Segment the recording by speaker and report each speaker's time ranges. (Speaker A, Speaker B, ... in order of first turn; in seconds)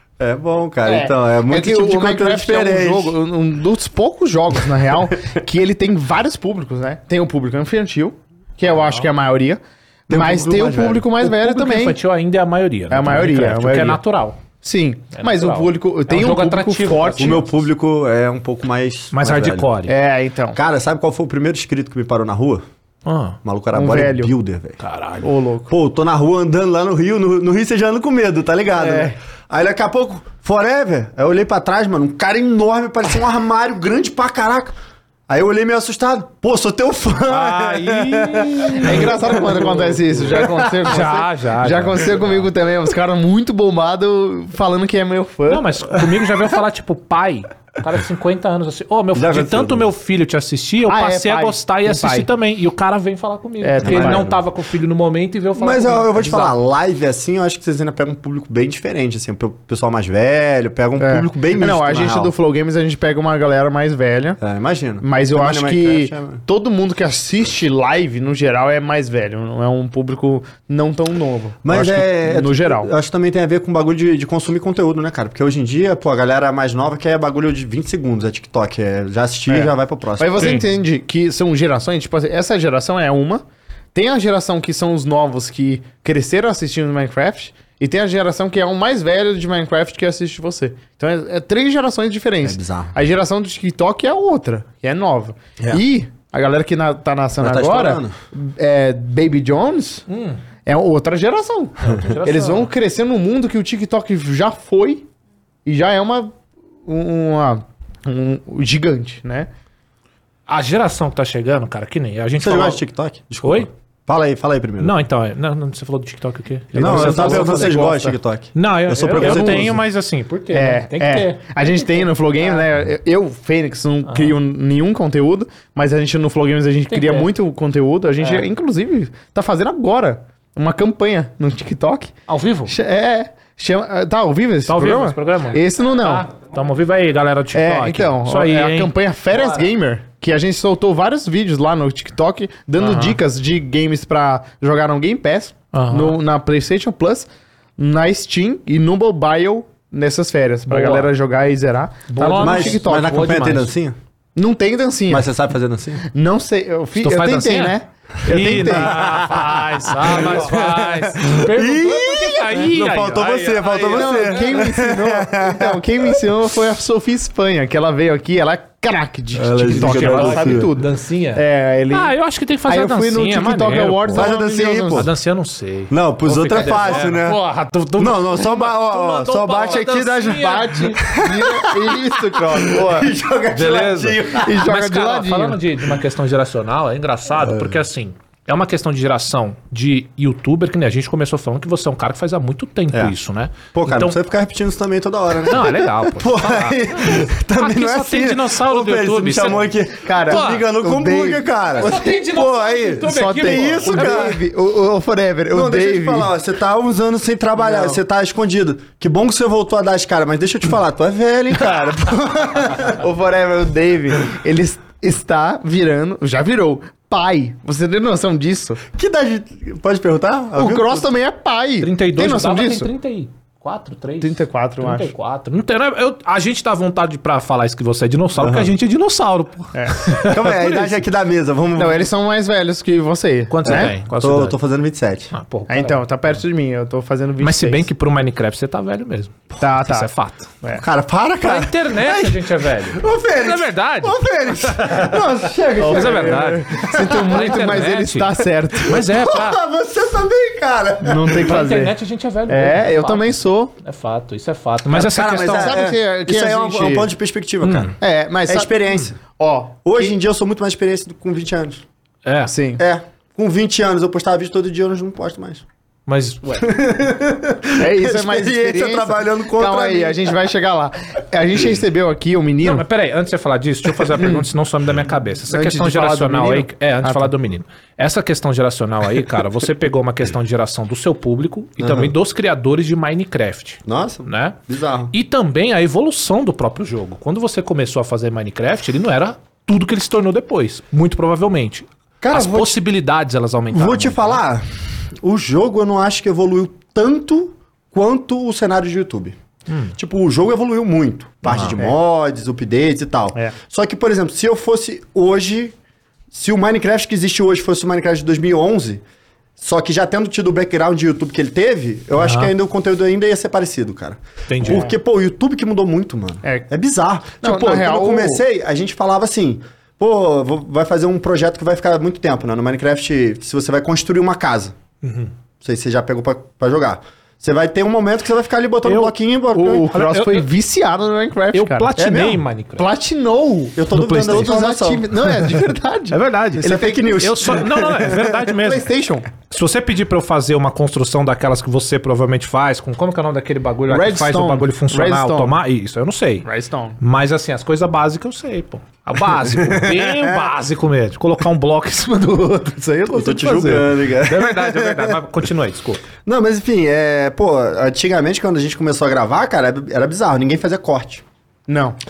Speaker A: 0.2-3.2, 10.1-11.1, 17.2-19.7, 20.6-22.6, 23.4-24.8, 25.7-34.7, 35.3-40.8, 49.1-49.9, 53.8-54.4, 55.6-62.3, 64.4-66.4, 71.6-80.6, 92.4-92.9, 97.4-98.2, 112.4-114.9, 116.8-119.8, 152.4-154.0, 155.1-156.0, 158.9-159.5, 160.1-166.3, 169.3-170.7, 174.1-175.1, 175.9-177.4, 178.0-184.7, 193.7-204.4, 205.5-213.0, 218.9-221.1, 228.4-228.7, 230.2-232.1, 233.7-235.3, 240.8-247.8, 248.9-251.6, 254.9-257.9, 258.5-259.2, 259.9-261.9, 262.8-265.6, 266.6-270.3, 281.8-282.1, 283.9-285.1, 292.2-292.8, 293.7-294.6, 295.2-299.4, 299.9-305.8, 306.3-309.0, 309.6-324.8, 325.6-329.9, 332.0-332.4, 333.8-335.1, 336.6-338.4, 349.6-350.5, 353.1-355.2, 356.2-361.2
Speaker B: 0.8-12.0, 12.9-14.0, 14.6-17.4, 19.9-20.6, 23.7-24.3, 25.2-25.7, 28.7-29.2, 38.8-45.8, 50.9-52.3, 53.6-54.3, 61.0-64.4, 65.0-72.9, 79.5-83.4, 83.9-100.1, 100.7-105.1, 105.7-106.3, 106.9-109.5, 116.7-118.2, 119.0-119.7, 120.5-132.1, 132.7-136.3, 137.5-147.3, 147.8-153.4, 154.4-155.3, 156.0-160.5, 163.9-172.1, 172.7-175.1, 176.6-177.1, 179.6-183.1, 184.4-185.6, 200.0-202.0, 203.1-206.3, 207.6-208.0, 211.6-218.8, 220.6-222.9, 224.2-225.1, 229.8-230.2, 231.8-233.9, 235.7-237.9, 239.6-240.1, 245.8-249.0, 251.0-253.7, 255.4-257.1, 258.0-258.7, 259.4-260.1, 262.4-262.8, 267.8-272.9, 274.1-274.5, 275.5-277.3, 316.4-316.7, 317.4-318.4, 329.5-337.2, 338.5-339.3, 343.9-345.6, 346.4-347.0, 352.3-353.9, 361.7-362.0
Speaker C: 11.2-14.4, 15.2-17.5, 19.1-19.9, 23.1-23.4, 24.8-25.3, 37.3-39.6, 40.9-42.4, 45.5-56.6, 80.4-80.7, 100.1-100.4, 102.0-102.7, 110.5-112.8, 114.8-117.8, 118.6-122.6, 124.1-124.4, 126.9-127.3, 132.3-132.7, 134.7-139.7, 142.8-143.2, 145.7-146.2, 150.7-151.1, 152.1-153.7, 157.0-164.5, 169.7-174.3, 174.9-181.0, 183.5-194.2, 195.4-199.8, 200.3-200.6, 201.8-204.4, 221.8-231.0, 233.5-234.6, 235.3-236.0, 237.4-240.5, 241.4-245.3, 245.8-249.6, 251.4-255.8, 257.6-257.9, 262.2-262.5, 266.1-266.7, 272.6-284.6, 285.1-294.4, 301.4-301.8, 312.2-312.5, 314.5-314.9, 325.0-325.3, 328.9-329.1, 329.9-330.5, 331.5-332.9, 333.9-334.5, 336.1-338.9, 339.5-346.5, 347.0-352.4, 353.6-356.0